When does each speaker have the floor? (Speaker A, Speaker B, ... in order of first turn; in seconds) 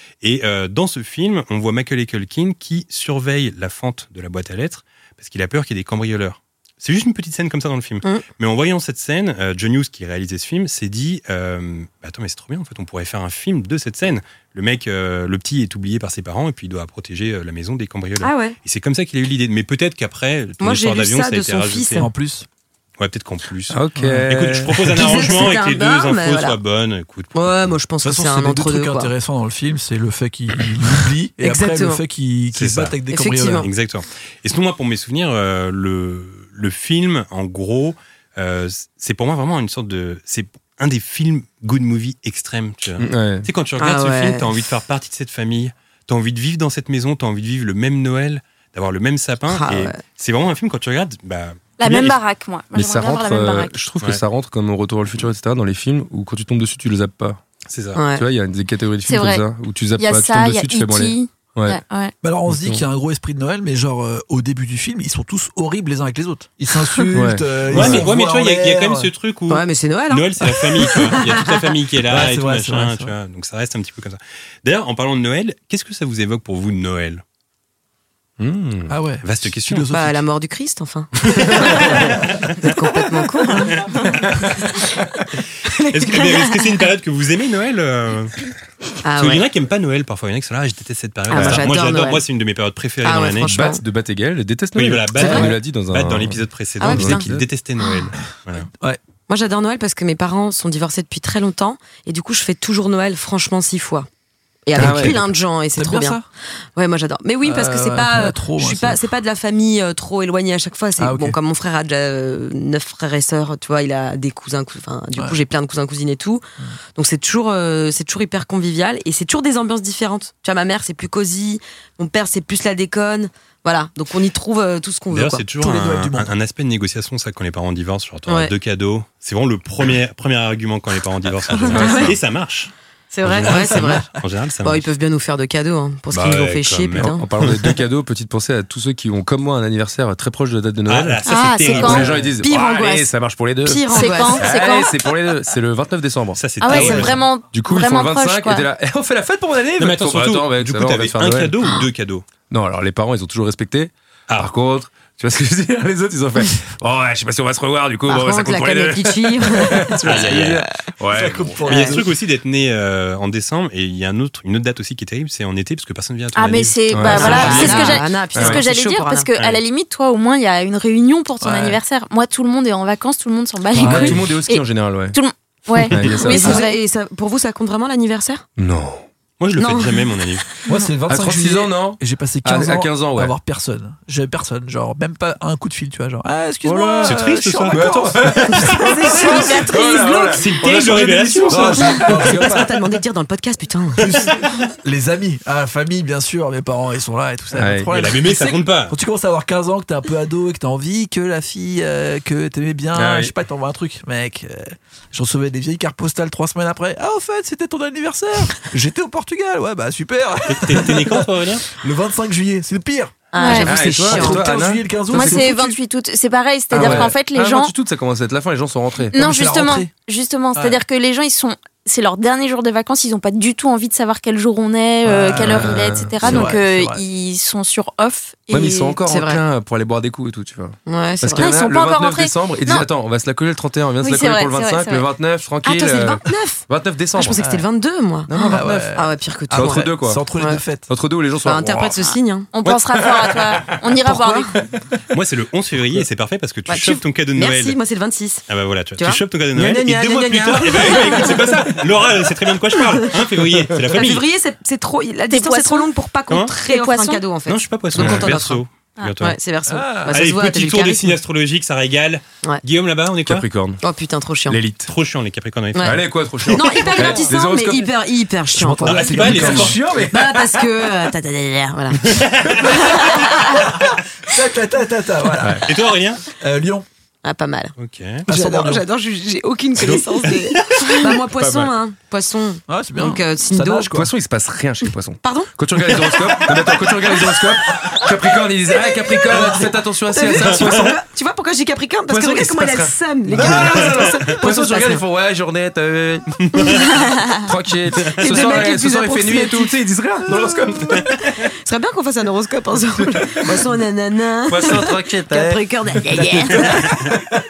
Speaker A: 0.2-22.1, 23.0-27.7, 32.5-32.9, 33.6-52.2, 57.7-58.0, 67.7-77.2, 79.2-79.9, 81.2-82.7, 83.7-84.2, 85.7-88.5, 89.1-93.5, 94.7-98.7, 125.1-132.7, 133.2-134.8, 136.1-137.8, 140.9-142.3, 146.4-147.2, 149.8-152.3, 160.0-160.6, 161.6-168.0, 179.4-180.4, 187.0-188.8, 190.3-192.1, 197.9-198.9, 210.5-211.7, 245.1-247.8, 248.5-254.2, 256.3-256.5, 257.4-259.4, 260.1-263.5, 264.9-267.0, 268.9-269.8, 272.1-272.7, 275.6-276.2, 277.8-278.2, 280.3-280.8, 296.4-296.8
Speaker B: 18.2-18.6, 20.6-22.1, 24.9-26.6, 27.3-29.1, 31.4-32.0, 33.1-33.7, 43.8-44.5, 49.5-50.0, 57.9-58.2, 69.5-71.7, 79.9-83.8, 85.7-86.3, 89.0-89.5, 91.3-92.2, 93.0-93.8, 95.2-95.5, 96.8-97.3, 99.3-104.1, 104.7-106.2, 106.8-125.4, 128.3-128.5, 131.7-132.1, 133.1-134.1, 134.6-137.3, 142.4-143.1, 143.6-144.7, 158.1-160.4, 161.7-162.0, 167.1-169.3, 176.2-178.4, 179.6-180.2, 188.5-190.5, 191.8-194.2, 213.3-214.5, 229.1-229.4, 230.8-231.5, 235.6-240.6, 241.4-242.5, 244.0-244.5, 246.7-248.4, 249.0-251.6, 253.8-258.6, 259.2-261.2, 263.8-264.6, 265.7-273.6, 277.2-277.7, 278.3-283.9, 285.2-285.9, 288.7-295.0, 298.1-299.7, 301.6-306.8
Speaker C: 21.9-22.5, 23.9-24.3, 28.0-33.7, 62.2-69.1, 72.0-73.1, 78.9-80.2, 95.2-95.5, 104.8-106.2, 107.4-109.0, 111.0-111.4, 125.6-126.3, 133.5-134.0, 161.1-162.1, 171.4-171.8, 173.8-174.3, 180.7-189.6, 191.5-192.7, 194.0-213.2, 213.9-215.7, 216.7-217.1, 219.1-219.9, 220.5-220.8, 225.0-227.0, 238.5-240.9, 259.7-260.2, 268.5-269.8, 273.5-275.7, 276.4-276.9, 278.2-278.8, 282.7-284.1, 306.1-307.0
Speaker D: 23.7-25.3, 43.0-43.5, 52.7-57.4, 58.1-61.8, 62.5-62.8, 67.1-68.1, 78.4-78.9, 91.3-91.6, 93.5-97.5, 104.8-105.2, 131.7-132.2, 136.9-151.7, 152.5-161.6, 166.9-168.6, 173.7-175.2, 175.9-176.6, 178.6-179.0, 181.1-183.3, 186.7-187.2, 187.7-192.3, 197.5-197.9, 202.9-203.3, 213.6-215.5, 216.7-219.1, 225.3-226.6, 228.5-237.6, 238.3-238.9, 239.5-240.2, 240.9-242.0, 242.8-243.8, 249.6-251.5, 258.0-258.3, 263.2-263.8, 264.5-264.9, 265.8-267.9, 269.1-270.8, 275.4-275.7, 281.3-281.7, 283.9-291.0, 292.1-296.3, 297.3-301.1, 303.1-303.6, 304.5-305.6
Speaker E: 51.8-53.8, 59.0-59.5, 60.0-62.1, 141.2-142.2, 143.9-144.9, 146.6-148.7, 166.3-176.8, 213.3-213.8, 215.1-217.7, 219.1-229.0, 231.4-232.9, 234.0-235.1, 242.0-244.6, 255.3-255.9, 256.6-257.2